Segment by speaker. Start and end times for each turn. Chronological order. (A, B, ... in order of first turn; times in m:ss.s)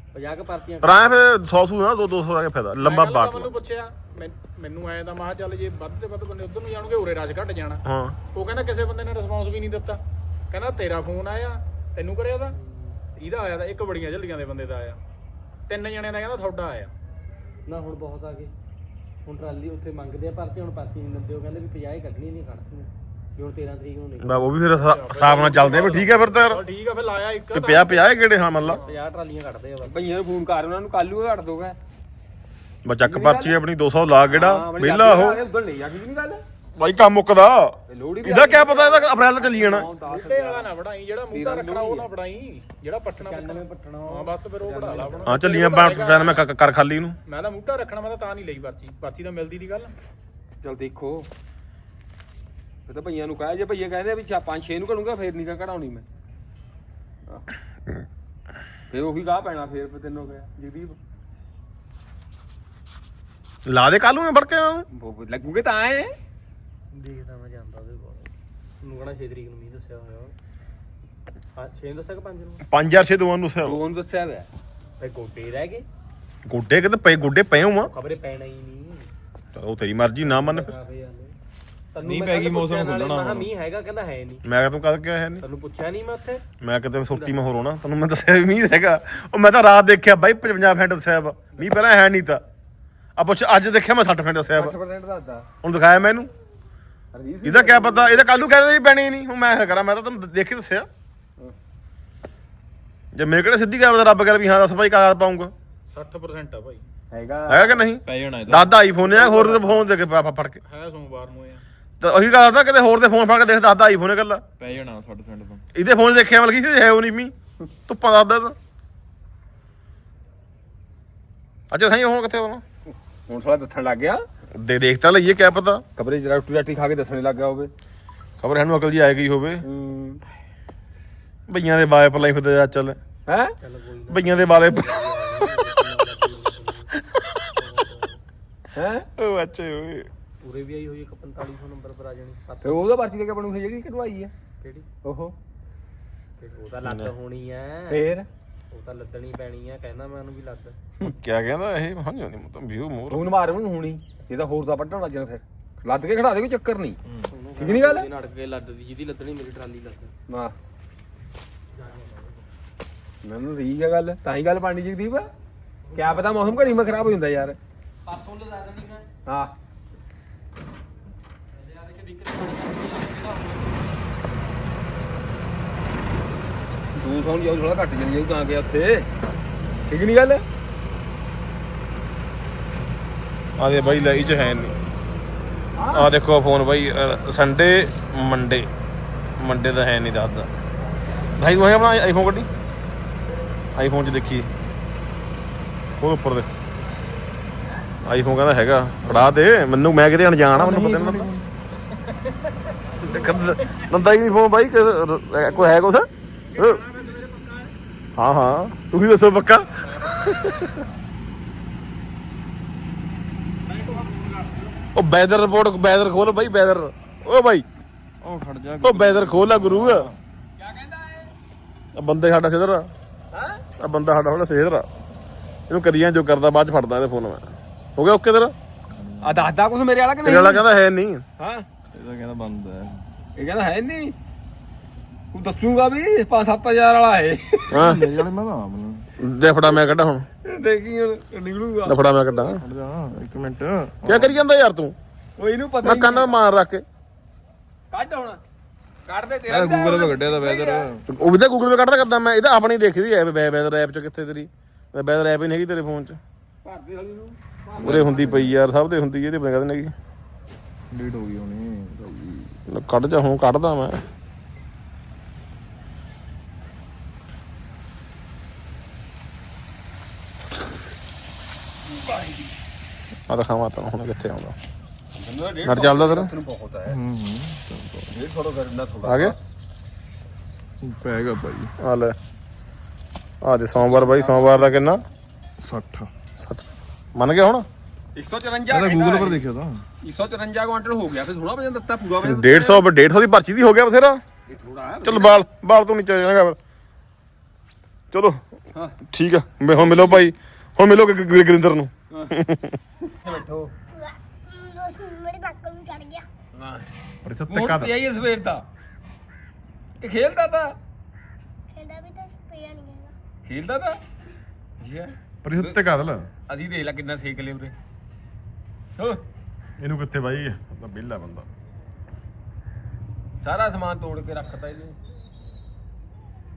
0:00.1-0:01.2 A
0:00.8-0:03.5 B
0:02.8-0:07.8 C
0:07.8-0:08.2 B
0:08.3-0:12.6 C
0:12.5-0:13.0 A
0:13.2-0:15.0 C
0:15.7-0:16.9 C
0:17.7-0:18.5 A
0:19.2-0:24.4 A
0:24.2-0:26.6 B
0:24.9-0:28.1 C
0:27.5-0:28.8 B
0:28.7-0:30.0 A
0:29.8-0:31.8 D
0:32.8-0:35.4 B
0:33.0-0:33.6 D
0:34.3-0:36.4 D
0:36.8-0:39.9 B
0:37.9-0:39.9 D
0:39.4-0:40.7 A
0:40.1-0:46.4 C
0:41.3-0:42.1 D
0:43.2-0:45.3 A
0:45.2-0:47.2 B
0:47.3-0:49.9 C
0:50.6-0:51.3 D
0:52.9-0:56.0 D
0:58.9-1:01.0 D
1:03.6-1:04.8 B
1:04.9-1:06.1 D
1:06.9-1:08.3 A
1:08.8-1:10.3 A
1:11.6-1:12.6 A
1:12.7-1:13.8 B
1:13.6-1:14.5 D
1:15.0-1:15.8 A
1:16.4-1:17.9 B
1:17.9-1:19.1 A
1:19.5-1:20.7 B
1:20.2-1:21.3 A
1:21.9-1:24.4 A
1:22.0-1:23.5 E
1:24.4-1:25.4 B
1:25.4-1:26.4 A
1:26.6-1:32.4 B
1:33.2-1:34.7 B
1:34.5-1:35.5 D
1:35.6-1:36.3 B
1:37.1-1:38.2 D
1:37.4-1:40.9 B
1:43.1-1:45.5 B
1:45.9-1:46.8 C
1:47.1-1:47.8 D
1:47.5-1:50.6 B
1:48.0-1:48.7 E
1:48.9-1:49.9 D
1:50.7-1:51.6 C
1:52.0-1:54.4 B
1:54.6-1:55.6 E
1:55.7-1:57.3 B
1:57.9-1:58.6 B
2:01.7-2:02.6 B
2:02.9-2:04.2 D
2:04.6-2:05.8 B
2:06.0-2:07.7 D
2:08.4-2:09.6 B
2:09.6-2:10.2 D
2:11.5-2:13.0 B
2:13.3-2:13.5 D
2:13.6-2:16.9 A
2:14.1-2:15.1 B
2:17.1-2:17.4 B
2:17.5-2:18.2 A
2:18.7-2:19.1 D
2:19.2-2:20.1 B
2:20.4-2:22.8 A
2:22.6-2:24.3 D
2:24.6-2:24.9 A
2:25.0-2:25.3 D
2:26.4-2:28.0 A
2:26.8-2:27.1 B
2:27.9-2:28.3 D
2:28.7-2:30.8 A
2:31.0-2:33.3 B
2:33.1-2:37.0 D
2:37.3-2:40.1 A
2:37.6-2:38.1 D
2:40.3-2:40.5 D
2:41.7-2:42.4 A
2:43.2-2:45.3 D
2:45.8-2:46.9 A
2:45.9-2:47.6 D
2:48.0-2:49.1 A
2:49.2-2:49.5 D
2:51.5-2:54.0 A
2:57.0-2:59.1 D
2:59.9-3:00.4 D
3:03.6-3:04.7 B
3:05.8-3:06.1 D
3:05.9-3:08.7 B
3:09.4-3:10.5 B
3:11.4-3:12.5 B
3:13.8-3:14.5 B
3:16.0-3:16.5 B
3:18.0-3:21.3 B
3:20.5-3:21.5 E
3:23.0-3:26.8 B
3:26.5-3:27.7 C
3:28.2-3:30.8 B
3:33.7-3:34.8 C
3:34.9-3:37.6 B
3:38.2-3:40.2 E
3:38.8-3:40.1 B
3:40.6-3:41.3 D
3:42.0-3:42.9 B
3:43.3-3:43.6 D
3:43.8-3:44.8 B
3:45.7-3:48.5 B
3:48.9-3:49.5 E
3:49.2-3:50.6 D
3:50.2-3:51.2 B
3:51.4-3:51.7 D
3:51.9-3:53.0 E
3:53.4-3:54.1 D
3:55.3-3:57.9 D
3:57.7-3:58.0 B
3:57.8-3:59.0 E
3:59.2-4:00.2 B
4:00.4-4:02.0 D
4:01.8-4:02.6 B
4:02.4-4:04.4 E
4:04.0-4:04.9 B
4:05.4-4:06.3 D
4:05.8-4:06.8 B
4:07.9-4:08.4 D
4:09.1-4:10.9 D
4:09.5-4:11.0 E
4:11.1-4:16.2 B
4:16.6-4:18.5 D
4:17.8-4:18.5 E
4:17.8-4:19.9 B
4:20.9-4:22.6 E
4:22.7-4:24.0 B
4:31.8-4:32.5 D
4:33.3-4:34.6 B
4:35.1-4:37.0 D
4:35.6-4:36.3 B
4:36.9-4:38.2 E
4:38.1-4:39.4 D
4:39.0-4:39.3 B
4:40.8-4:41.7 E
4:41.8-4:42.2 B
4:43.4-4:45.0 B
4:43.8-4:44.7 D
4:45.6-4:46.1 E
4:46.4-4:47.6 B
4:48.2-4:49.4 D
4:48.7-4:49.8 E
4:50.0-4:52.8 D
4:52.2-4:54.2 B
4:54.5-4:55.4 D
4:55.0-4:56.6 B
4:58.1-4:58.4 B
4:59.0-5:02.8 B
4:59.7-5:00.2 D
5:03.2-5:03.7 D
5:03.9-5:06.2 F
5:06.5-5:06.9 D
5:07.2-5:07.9 B
5:07.5-5:08.6 D
5:10.0-5:10.7 D
5:11.7-5:13.1 F
5:13.5-5:14.0 D
5:14.8-5:15.8 D
5:15.4-5:16.3 B
5:16.5-5:17.7 D
5:19.8-5:21.4 B
5:23.4-5:25.0 D